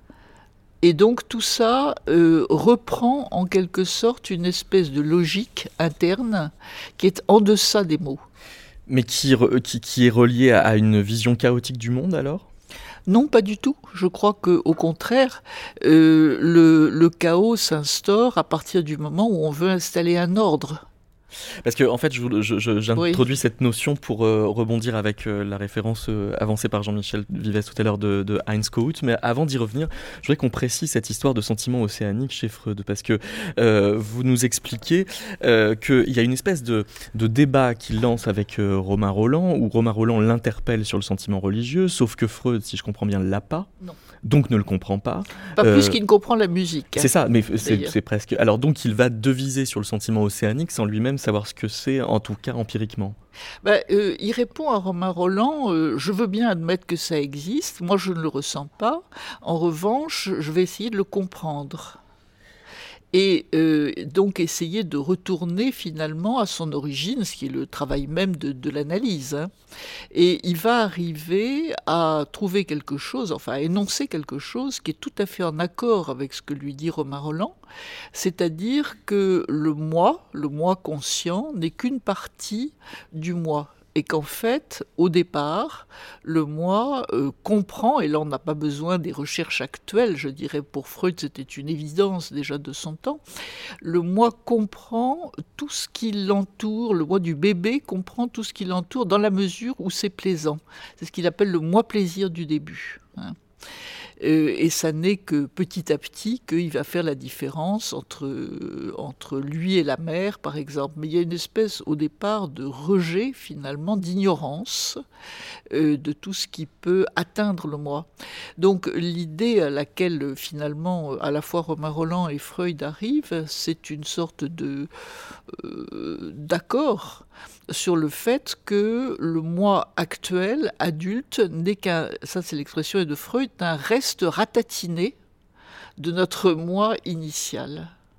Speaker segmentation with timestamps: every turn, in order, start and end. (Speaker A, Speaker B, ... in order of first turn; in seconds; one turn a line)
Speaker A: 0.8-8.2
Speaker B: 8.9-12.5
Speaker A: 13.1-20.8
Speaker B: 21.6-43.7
Speaker A: 23.0-23.2
Speaker B: 44.2-46.0
Speaker A: 45.6-47.9
Speaker B: 47.0-53.2
Speaker A: 53.6-62.0
Speaker A: 63.1-69.5
Speaker A: 70.1-77.5
Speaker A: 78.1-93.2
Speaker A: 93.8-103.4
Speaker A: 104.2-115.0
Speaker A: 115.7-124.9
Speaker A: 125.5-135.2
Speaker A: 136.0-137.9